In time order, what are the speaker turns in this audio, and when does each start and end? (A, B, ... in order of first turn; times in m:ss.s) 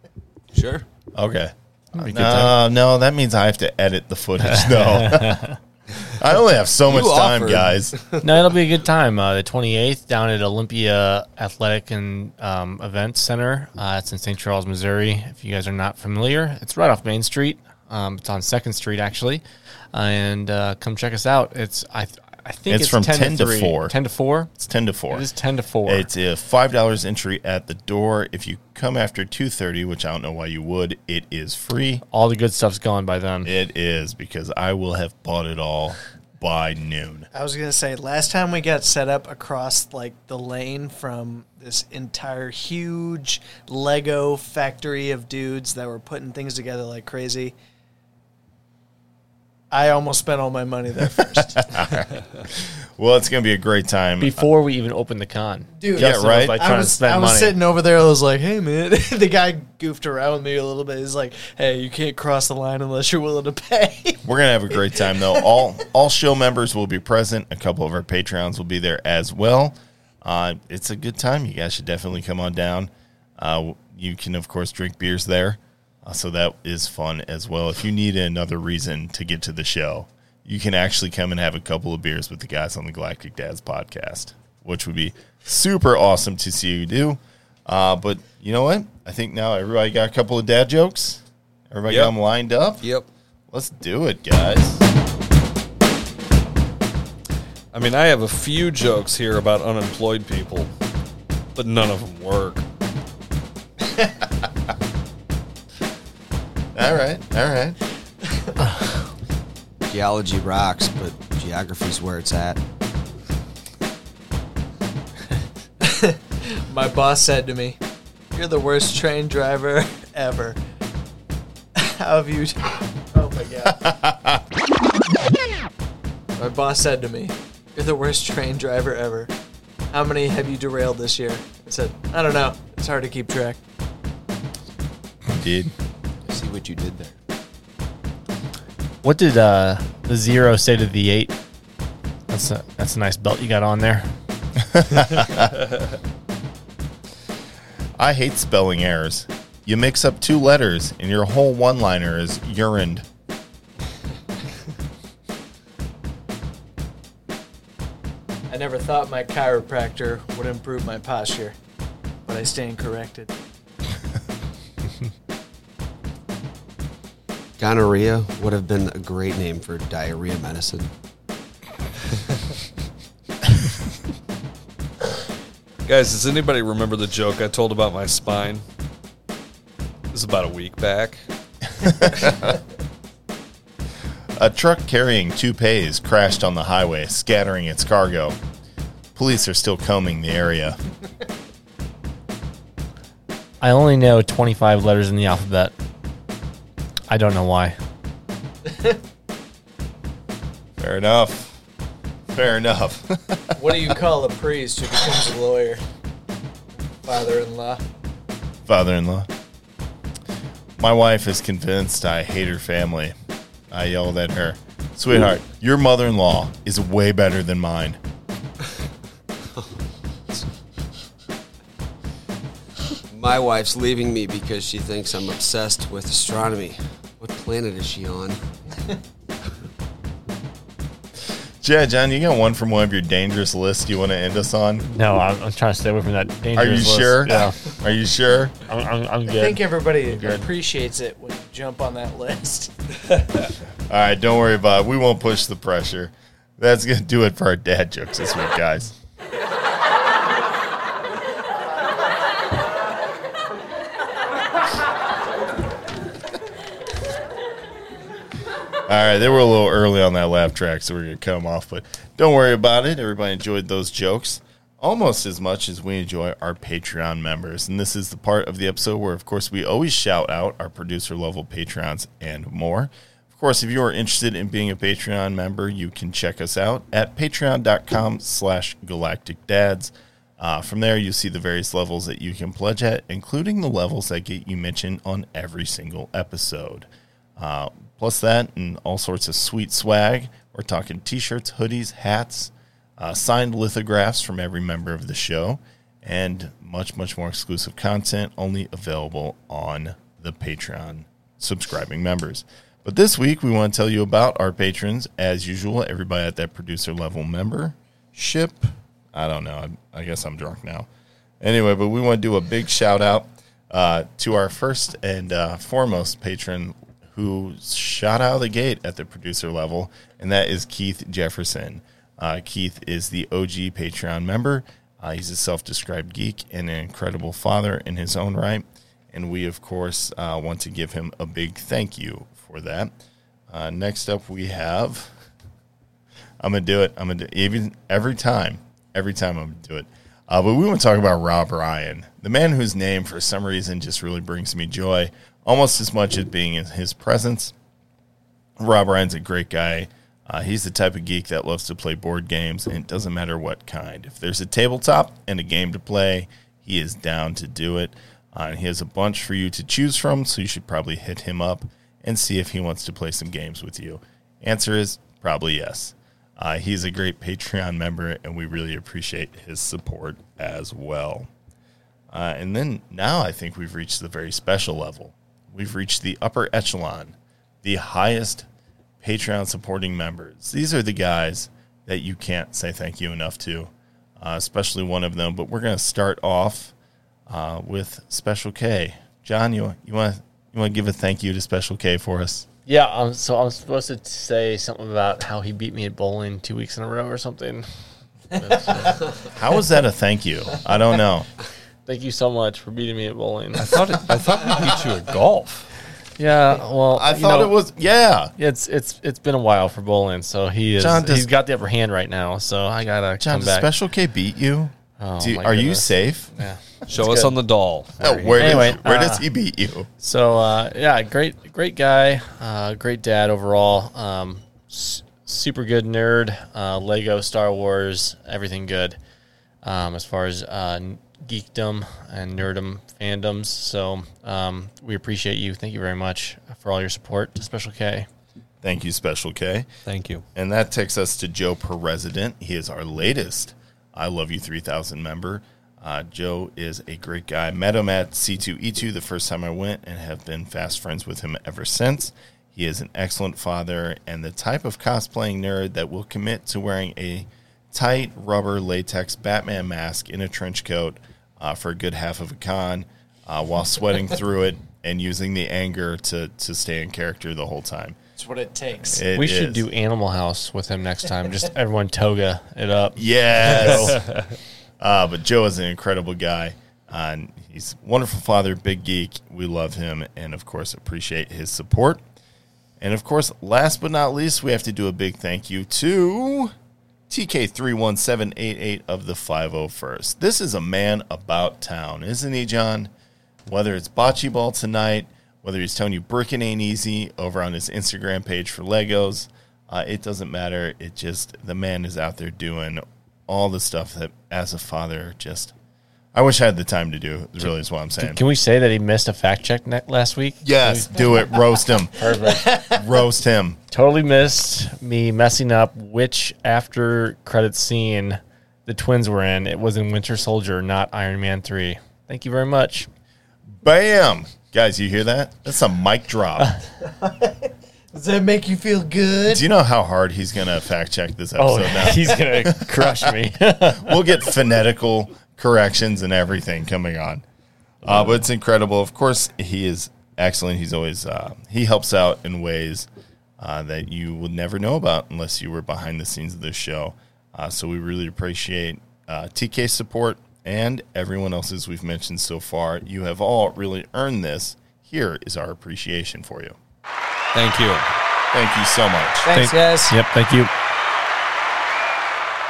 0:00.5-0:00.8 A
0:01.1-0:05.4 B
0:01.9-0:02.5 C
0:04.4-0:05.6 C
0:05.9-0:08.0 B
0:06.9-0:08.2 A
0:08.2-0:24.5 C
0:22.7-0:23.9 B
0:24.6-0:25.2 B
0:25.1-0:26.1 C
0:25.8-0:32.0 B
0:32.1-0:33.5 C
0:33.4-0:37.3 B
0:37.3-0:47.5 D
0:49.7-0:51.8 D
0:51.6-0:54.5 B
0:54.2-0:57.5 C
0:55.8-1:04.2 D
0:55.9-0:56.6 B
1:04.2-1:32.9 B
1:31.9-1:32.1 E
1:33.5-1:34.8 B
1:37.7-1:40.7 E
1:41.5-1:42.6 E
1:46.7-1:47.8 B
1:49.9-1:52.6 A
1:55.8-1:57.8 D
1:58.3-2:00.6 D
2:01.7-2:03.9 D
2:03.8-2:04.4 B
2:06.4-2:09.3 D
2:09.9-2:13.6 D
2:15.3-2:15.7 B
2:16.2-2:17.1 A
2:19.0-2:21.4 C
2:22.3-2:24.1 C
2:24.6-2:25.6 B
2:28.0-2:33.0 B
2:38.5-2:41.6 D
2:42.3-2:43.3 D
2:47.6-2:50.9 A
2:55.8-2:58.6 E
3:00.1-3:01.2 E
3:01.8-3:02.4 B
3:04.4-3:08.4 B
3:09.1-3:10.8 B
3:13.6-3:15.7 C
3:17.1-3:17.8 C
3:18.6-3:19.0 D
3:20.8-3:21.6 B
3:22.3-3:23.6 B
3:23.5-3:25.8 D
3:27.0-3:27.8 D
3:28.6-3:29.3 B
3:30.8-3:33.2 B
3:33.7-3:38.0 B
3:43.1-3:48.4 A
3:51.6-3:54.9 B
3:54.9-3:57.6 C
3:56.5-3:58.5 B
3:58.7-4:00.5 C
3:59.3-4:02.7 D
4:03.9-4:08.9 B
4:18.8-5:10.9 B
5:11.4-5:32.9 B
5:33.5-5:35.2 B
5:36.4-5:47.5 B
5:48.6-6:11.3 B
6:12.1-6:18.5 B
6:19.0-6:26.7 B
6:27.3-6:32.5 B
6:32.6-6:37.7 C
6:38.3-6:39.0 C
6:39.3-6:41.3 B
6:41.8-6:43.7 C
6:43.6-6:45.7 E
6:46.2-6:47.6 C
6:46.9-6:48.3 B
6:48.4-6:53.7 C
6:50.8-6:51.3 B
6:53.2-6:56.3 B
6:55.0-6:56.6 C
6:56.9-6:58.6 E
6:56.9-6:57.3 B
6:58.0-6:59.9 B
6:58.4-6:59.3 C
7:00.0-7:09.0 C
7:09.6-7:18.1 C
7:18.6-7:19.7 B
7:19.9-7:20.2 E
7:20.3-7:48.0 B
7:48.2-7:49.0 D
7:48.9-7:49.6 B
7:49.0-7:54.0 C
7:53.0-7:54.1 B
7:54.8-8:02.0 B
8:02.8-8:06.5 B
8:07.1-8:12.9 B
8:13.4-8:25.5 B
8:26.1-8:28.2 B
8:28.0-8:31.4 C
8:30.4-8:32.1 B
8:31.9-8:32.5 C
8:32.3-8:32.8 D
8:32.6-8:33.6 B
8:33.7-8:42.9 C
8:43.5-8:46.6 B
8:46.8-8:49.4 D
8:49.3-8:57.2 B
8:51.4-8:54.0 C
8:57.8-9:16.6 B
9:17.3-9:17.9 E
9:18.3-9:19.3 B
9:19.2-9:19.9 D
9:19.3-9:20.5 C